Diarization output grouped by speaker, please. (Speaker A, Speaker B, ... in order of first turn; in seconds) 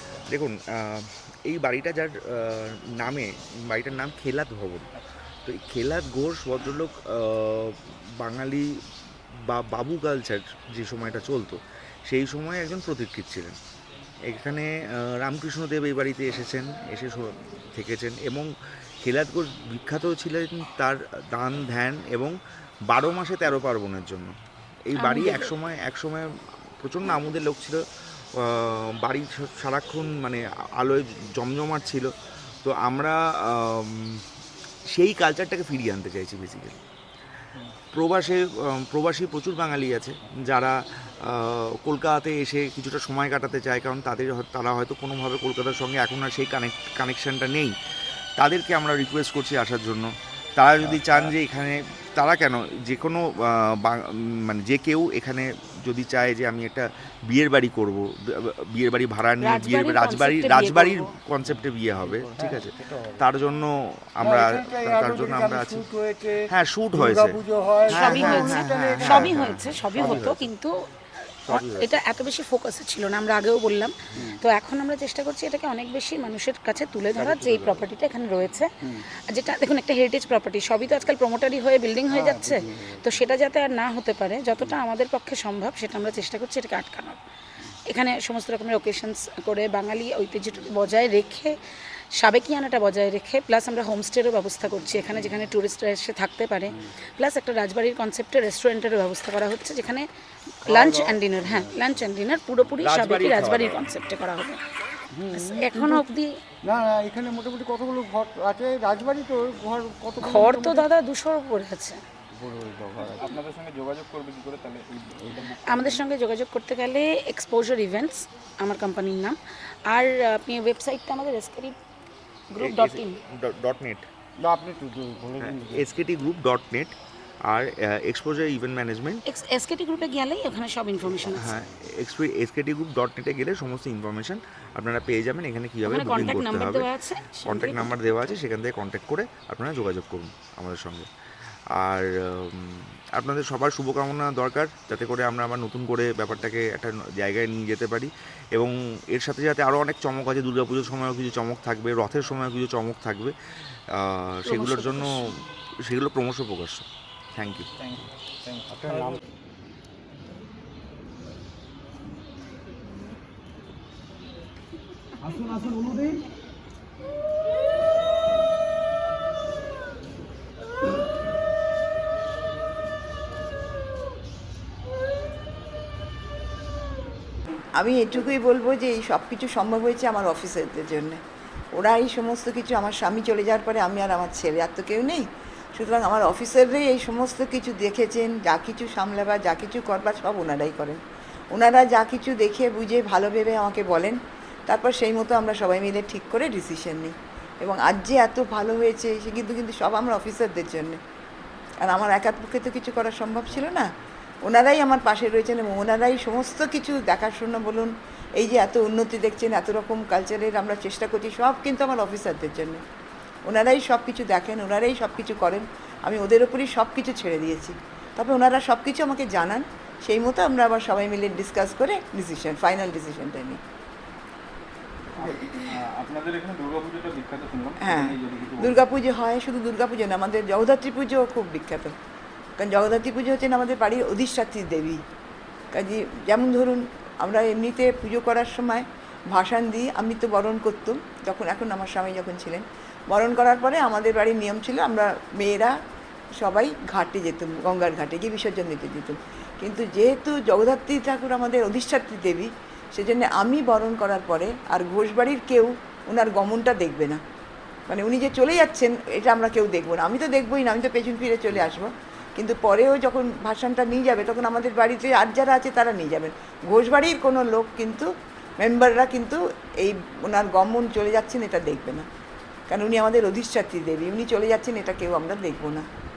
Speaker A: 0.3-4.9, 5.5-8.7, 9.5-13.6, 14.3-18.5, 19.0-22.3, 22.9-24.3, 24.9-26.2, 26.8-27.8, 28.4-32.1, 32.6-34.2, 34.9-36.8, 37.9-47.7, 48.4-65.9, 66.5-70.5, 71.5-71.9, 102.8-103.9, 122.5-124.0, 125.4-126.9, 127.5-129.2, 131.2-141.1, 141.7-157.7
Speaker B: 24.9-25.6, 59.4-61.2, 68.0-70.8, 71.5-78.7, 79.3-87.2, 87.9-91.5, 92.2-100.1, 100.7-104.6, 105.3-106.4, 110.2-112.0, 115.6-119.4, 119.9-121.8, 122.5-123.2, 129.3-131.5, 135.9-138.3, 154.5-155.2
Speaker C: 61.5-63.2, 64.2-69.3, 77.2-77.7, 82.1-83.0, 100.6-102.0, 105.1-106.1, 106.6-110.9, 112.3-113.4, 124.4-125.9, 158.7-159.2, 165.3-165.9, 225.1-225.4
Speaker D: 113.1-116.0, 157.8-159.1, 225.2-228.8
Speaker E: 177.8-181.2, 181.7-191.0, 191.5-201.0, 201.8-203.8, 204.4-212.8, 213.4-223.6, 227.8-231.9, 232.6-235.0, 235.7-245.7, 246.4-257.2, 257.9-268.1, 268.6-272.1, 272.7-275.9